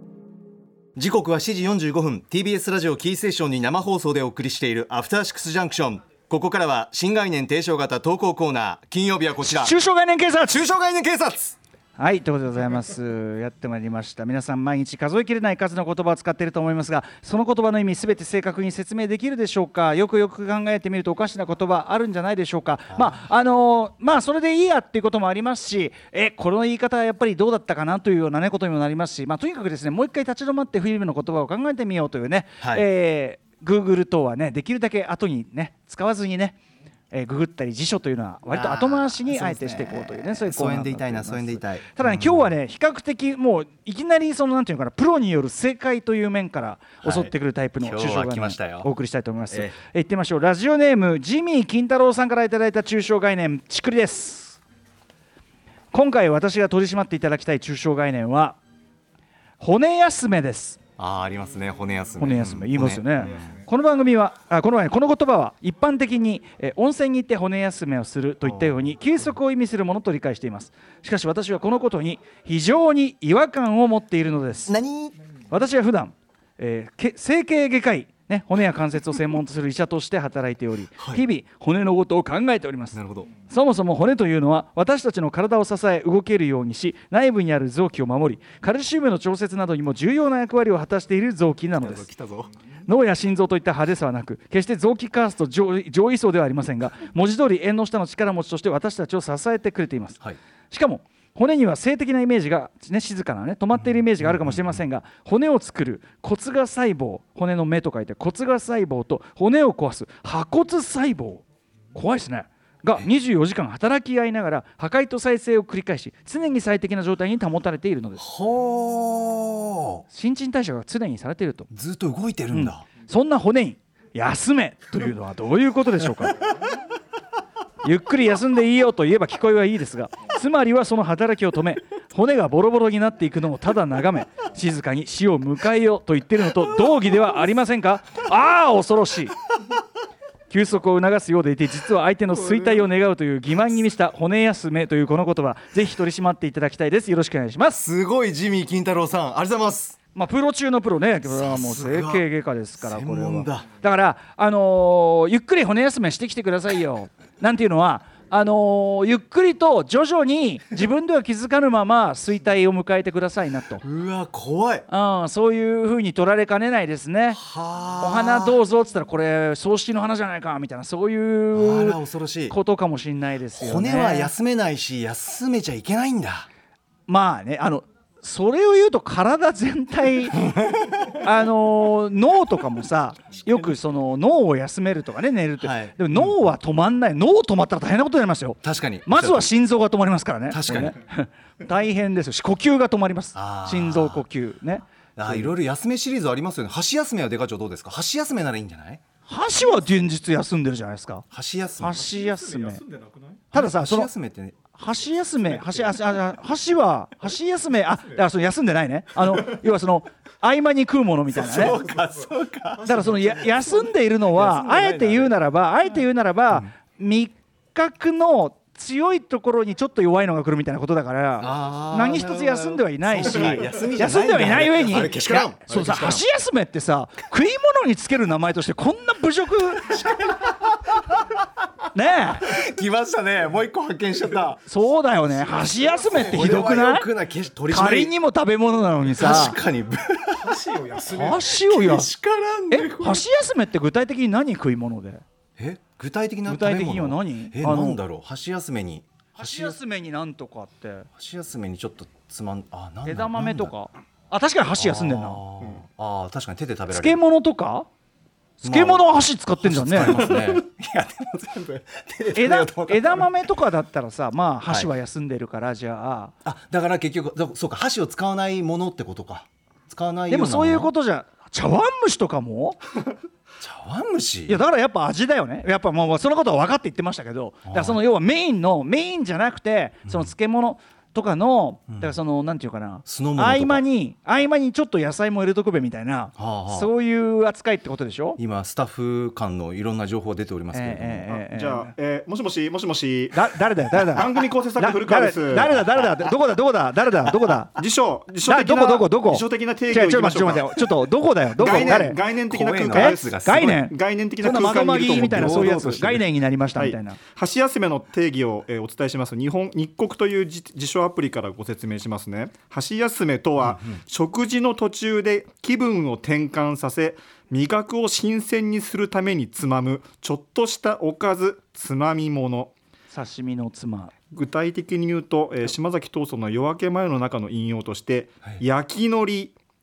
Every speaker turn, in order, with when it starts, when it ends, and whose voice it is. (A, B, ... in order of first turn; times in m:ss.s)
0:01.0-0:09.7 A
0:09.4-0:10.7 B
0:10.5-0:11.6 A
0:12.0-0:36.6 B
0:22.9-0:23.2 A
0:32.6-0:32.9 A
0:37.1-0:54.6 B
0:38.5-0:42.5 A
0:47.0-0:48.9 A
0:49.5-0:49.8 A
0:55.9-0:58.6 B
0:59.6-1:00.8 B
1:01.0-1:03.4 A
1:02.2-1:14.8 B
1:08.4-1:08.9 A
1:14.7-1:15.1 A
1:15.5-1:32.1 B
1:22.9-1:23.3 A
1:31.7-1:32.5 A
1:32.9-1:58.2 B
1:58.2-2:00.0 A
2:00.1-2:01.7 B
2:01.7-2:02.8 A
2:02.5-2:06.4 B
2:07.8-2:19.3 B
2:20.5-2:27.8 B
2:22.3-2:22.9 A
2:27.7-2:30.0 A
2:30.1-2:43.8 B
2:31.2-2:32.2 A
2:32.8-2:33.7 A
2:43.8-2:44.8 A
2:44.9-2:47.4 B
2:47.3-2:48.6 A
2:48.0-2:54.3 B
2:51.5-2:52.6 A
2:53.6-2:56.5 A
2:57.1-3:00.4 B
3:00.4-3:01.1 A
3:01.1-3:15.5 B
3:05.6-3:06.3 A
3:08.6-3:09.5 A
3:10.5-3:11.0 A
3:13.3-3:14.2 A
3:15.2-3:19.0 A
3:19.2-3:21.2 B
3:21.3-3:22.0 A
3:21.8-3:22.8 B
3:22.0-3:23.5 C
3:23.5-3:24.1 B
3:23.5-3:24.6 A
3:24.7-3:31.8 B
3:25.4-3:25.9 C
3:31.3-3:32.9 A
3:32.8-3:35.3 C
3:32.8-3:50.1 B
3:41.4-3:45.8 A
3:45.3-3:46.2 C
3:49.9-3:51.3 A
3:51.9-3:52.5 B
3:52.4-3:54.6 A
3:54.6-3:57.1 B
3:56.0-3:58.1 A
3:57.7-3:59.6 B
3:59.0-4:03.3 A
4:00.4-4:01.3 C
4:01.0-4:02.1 B
4:02.7-4:05.2 B
4:05.6-4:09.8 A
4:06.4-4:08.0 B
4:09.4-4:11.1 B
4:11.2-4:13.7 A
4:13.0-4:15.4 B
4:14.8-4:17.2 A
4:16.9-4:17.9 B
4:18.6-4:20.3 B
4:18.6-4:23.4 A
4:22.3-4:26.3 B
4:24.6-4:24.9 A
4:26.4-4:30.9 A
4:30.3-4:32.8 B
4:33.6-4:34.6 A
4:34.5-4:48.4 B
4:37.6-4:38.0 A
4:40.0-4:40.3 A
4:43.0-4:43.8 A
4:46.4-4:46.9 A
4:48.4-4:51.3 A
4:50.7-4:51.9 B
4:51.4-4:55.7 C
4:53.3-4:57.8 B
4:57.8-5:00.8 C
4:58.4-5:02.2 B
5:01.6-5:06.2 C
5:02.5-5:03.8 A
5:02.8-5:07.2 B
5:05.2-5:06.2 A
5:06.8-5:22.7 C
5:23.1-5:24.1 B
5:24.3-5:29.5 C